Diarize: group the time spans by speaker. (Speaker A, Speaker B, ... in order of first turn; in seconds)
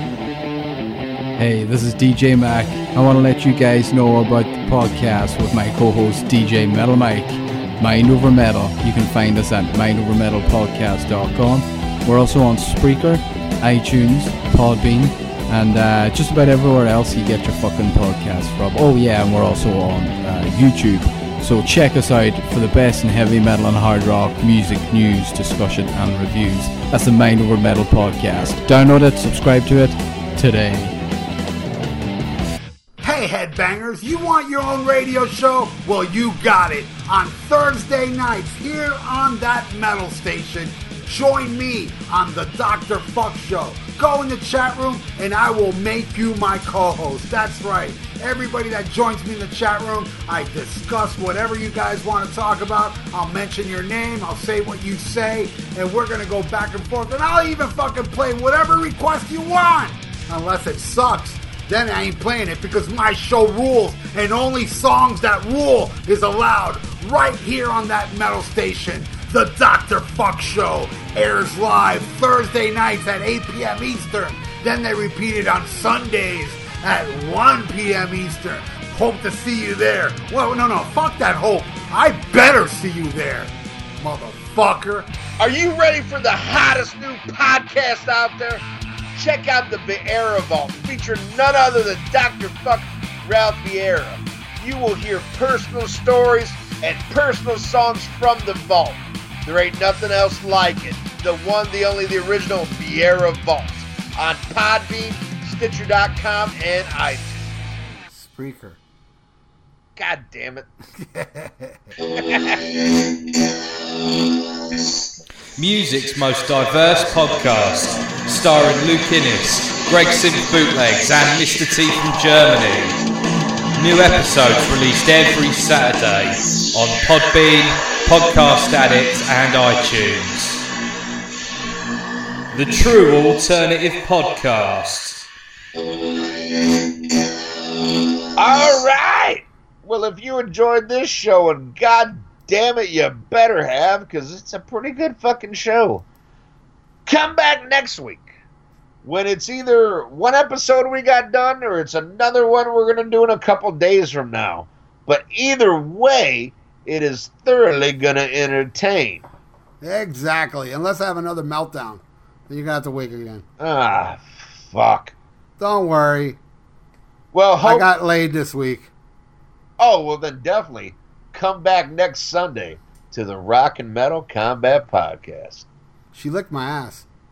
Speaker A: 1.4-30.9
Speaker B: 33.0-85.1, 108.1-108.8, 111.0-111.9, 159.8-163.4, 165.6-166.4, 167.6-168.9, 176.1-177.1
Speaker C: 85.4-107.3, 110.0-110.7, 112.1-112.6, 138.3-146.0, 147.1-148.3, 149.0-159.2, 163.6-165.1, 167.3-167.9, 169.8-175.7
Speaker D: 115.6-123.0, 123.7-130.6, 132.5-135.2